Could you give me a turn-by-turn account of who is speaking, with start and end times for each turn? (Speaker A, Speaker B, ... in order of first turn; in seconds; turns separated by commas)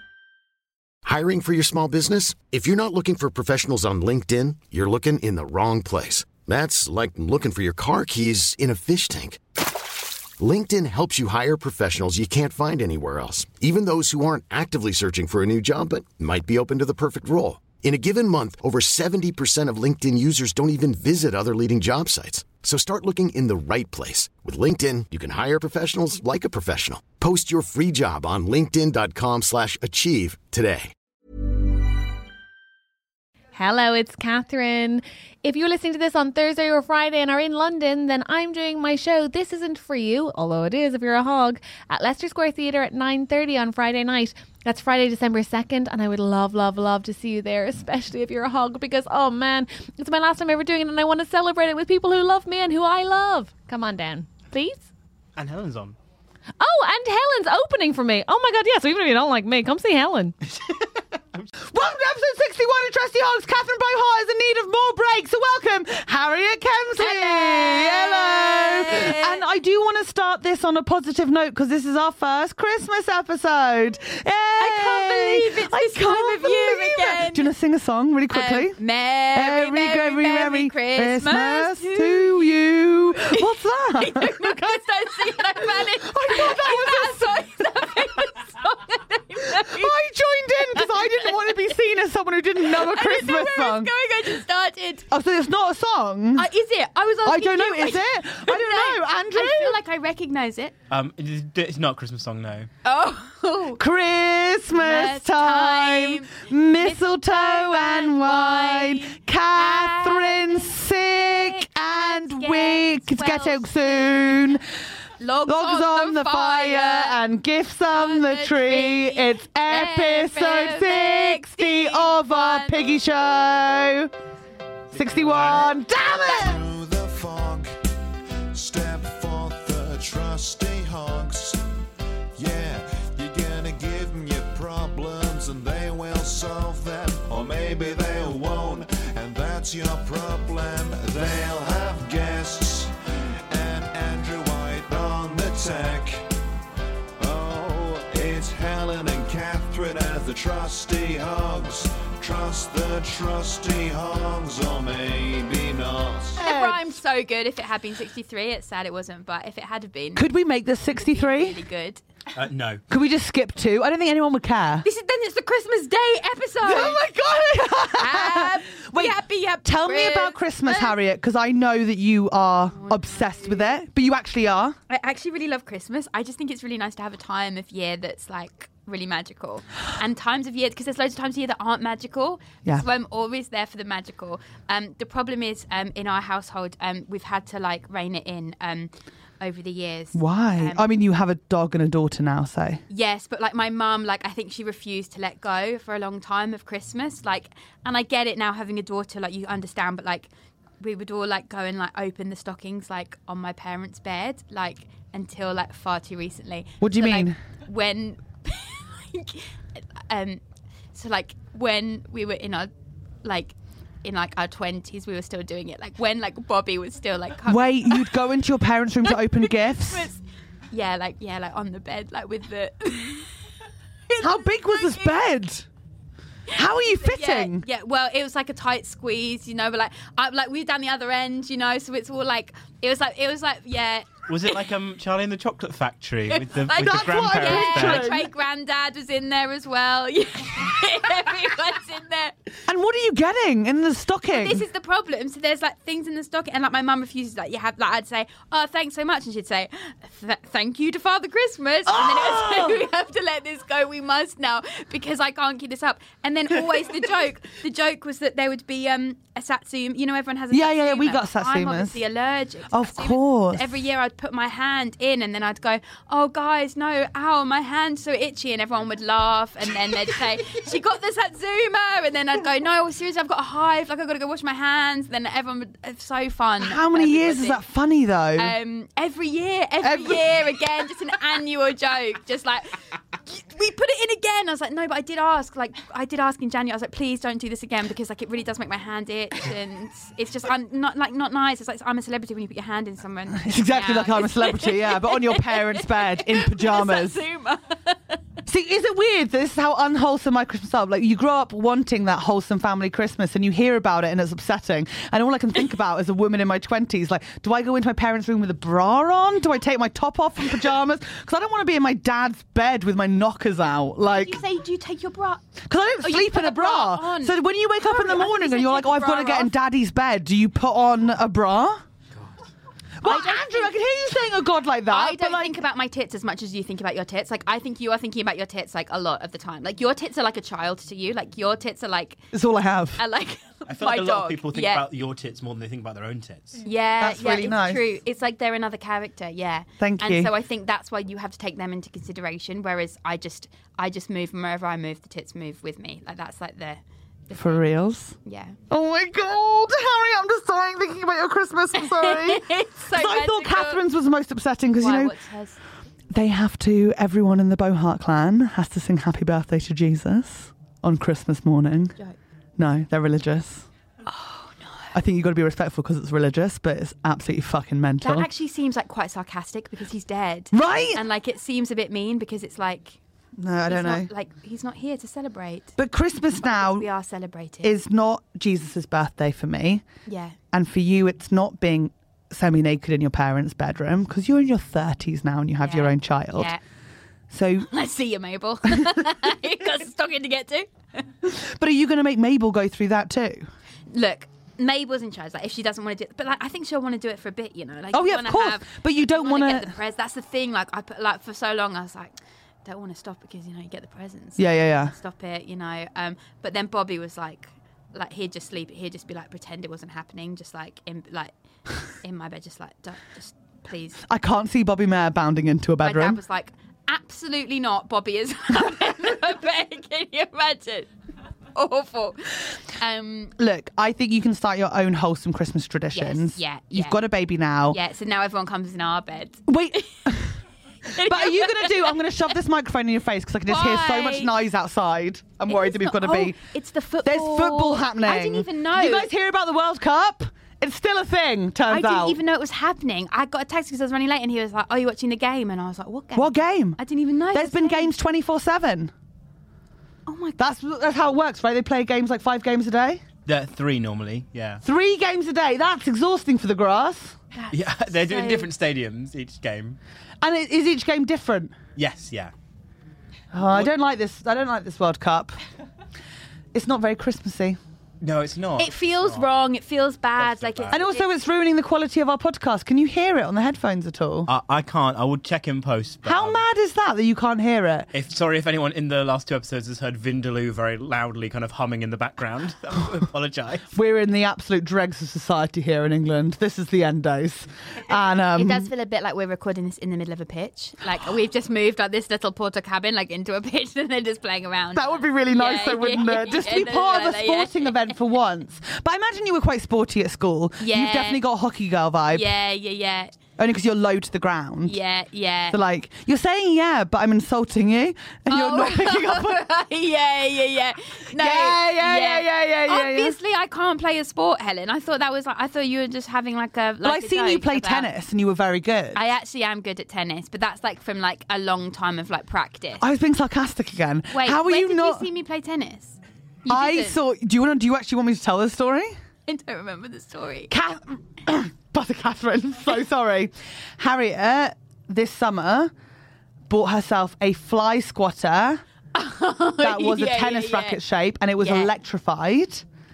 Speaker A: 1.0-9.4, Speaker A: 10.4-30.9, Speaker B: 33.5-54.9, Speaker C: 55.4-56.0, Speaker B: 56.6-60.3, Speaker D: 61.7-78.8, Speaker E: 67.0-69.4, Speaker E: 74.6-77.5, Speaker E: 78.3-82.5, Speaker D: 79.3-84.8, Speaker E: 83.1-89.9, Speaker D: 85.7-87.4, Speaker D: 89.5-93.9, Speaker E: 90.8-91.3, Speaker E: 92.6-95.1, Speaker D: 95.1-96.5, Speaker E: 96.3-100.7, Speaker D: 97.2-99.8, Speaker C: 100.9-102.7, Speaker E: 102.8-103.8, Speaker D: 103.8-114.6, Speaker E: 104.7-110.8, Speaker E: 111.3-114.6, Speaker E: 115.2-117.2, Speaker D: 115.5-124.1, Speaker E: 117.9-122.9, Speaker C: 124.9-125.7, Speaker D: 124.9-126.6, Speaker F: 126.3-127.8, Speaker F: 128.5-131.7, Speaker F: 132.3-142.9, Speaker F: 143.5-146.2, Speaker F: 147.2-156.4, Speaker E: 156.4-160.2, Speaker D: 156.4-156.8, Speaker D: 160.1-161.6, Speaker E: 160.9-162.0, Speaker C: 162.3-162.8, Speaker D: 162.9-164.8, Speaker E: 164.8-167.0, Speaker D: 166.6-174.8, Speaker E: 167.9-171.0, Speaker E: 172.7-173.8, Speaker E: 174.9-190.8, Speaker D: 190.1-192.8, Speaker E: 192.9-210.4, Speaker D: 206.8-207.4, Speaker E: 210.9-212.7, Speaker E: 213.2-218.1, Speaker D: 217.4-220.1, Speaker E: 219.1-220.2, Speaker E: 220.7-223.3, Speaker E: 224.1-225.2, Speaker D: 224.2-225.7, Speaker E: 226.5-234.6, Speaker D: 226.5-227.6, Speaker C: 234.3-238.1, Speaker E: 236.3-242.3, Speaker D: 236.7-238.3, Speaker D: 242.7-244.6, Speaker E: 244.3-277.6, Speaker D: 251.9-252.8, Speaker D: 260.5-262.0, Speaker D: 262.7-263.7, Speaker D: 276.6-278.6, Speaker E: 278.4-298.2, Speaker D: 279.8-280.3, Speaker D: 293.4-297.2, Speaker D: 298.4-314.4, Speaker E: 314.0-315.4, Speaker D: 315.6-321.8, Speaker E: 316.0-319.5, Speaker D: 323.0-325.6, Speaker E: 323.0-323.7, Speaker E: 324.9-332.2, Speaker D: 332.3-333.0, Speaker E: 333.0-334.8, Speaker C: 333.7-336.6, Speaker E: 336.6-347.6, Speaker D: 337.0-337.8, Speaker D: 339.8-340.3, Speaker D: 347.3-348.1, Speaker E: 348.2-348.6, Speaker D: 348.7-355.1, Speaker E: 351.8-353.8, Speaker E: 354.8-355.6, Speaker D: 356.1-361.9, Speaker D: 362.6-363.7, Speaker E: 364.0-364.9, Speaker D: 364.9-368.3, Speaker E: 368.0-373.0, Speaker D: 370.5-371.0, Speaker D: 373.4-374.1, Speaker E: 373.7-375.8, Speaker D: 375.8-376.9, Speaker E: 376.4-377.7, Speaker D: 377.6-379.8, Speaker E: 380.1-380.4, Speaker D: 380.5-386.5, Speaker E: 385.6-386.6, Speaker D: 387.3-387.7, Speaker E: 387.7-391.0, Speaker D: 391.2-393.5, Speaker E: 393.9-411.3, Speaker D: 397.9-399.7, Speaker D: 404.4-404.9, Speaker E: 411.9-414.0, Speaker D: 414.1-416.2, Speaker E: 415.8-420.9, Speaker E: 421.5-423.4, Speaker D: 423.4-427.8, Speaker E: 425.9-427.0, Speaker E: 427.7-430.1, Speaker D: 429.5-430.4, Speaker E: 430.9-432.0, Speaker D: 430.9-436.4, Speaker E: 433.5-434.3, Speaker E: 435.5-439.1, Speaker D: 437.0-442.2, Speaker E: 441.7-447.9, Speaker D: 446.1-446.8, Speaker D: 447.3-448.9, Speaker E: 450.1-450.4, Speaker D: 450.4-453.0, Speaker C: 453.2-454.6, Speaker D: 454.6-457.1, Speaker E: 457.3-458.5, Speaker C: 457.5-459.8, Speaker D: 460.2-461.5, Speaker C: 461.8-462.3, Speaker D: 463.3-465.4, Speaker D: 466.5-467.6, Speaker C: 468.0-469.2, Speaker E: 468.6-471.1, Speaker C: 470.2-470.8, Speaker D: 470.7-474.3, Speaker C: 474.3-476.4, Speaker D: 476.0-477.9, Speaker C: 477.9-483.7, Speaker D: 483.7-488.7, Speaker E: 488.3-497.9, Speaker D: 494.7-502.3, Speaker E: 500.6-501.2, Speaker E: 502.1-503.1, Speaker D: 503.4-504.8, Speaker E: 504.6-505.6, Speaker D: 505.5-509.4, Speaker E: 508.3-517.9, Speaker D: 511.1-513.1, Speaker D: 516.8-519.0, Speaker E: 518.9-522.8, Speaker D: 522.8-525.0, Speaker E: 524.1-527.0, Speaker D: 526.5-528.9, Speaker E: 529.3-530.5, Speaker D: 530.5-535.7, Speaker D: 536.5-538.6, Speaker E: 538.9-540.8, Speaker D: 539.6-542.6, Speaker E: 541.4-541.7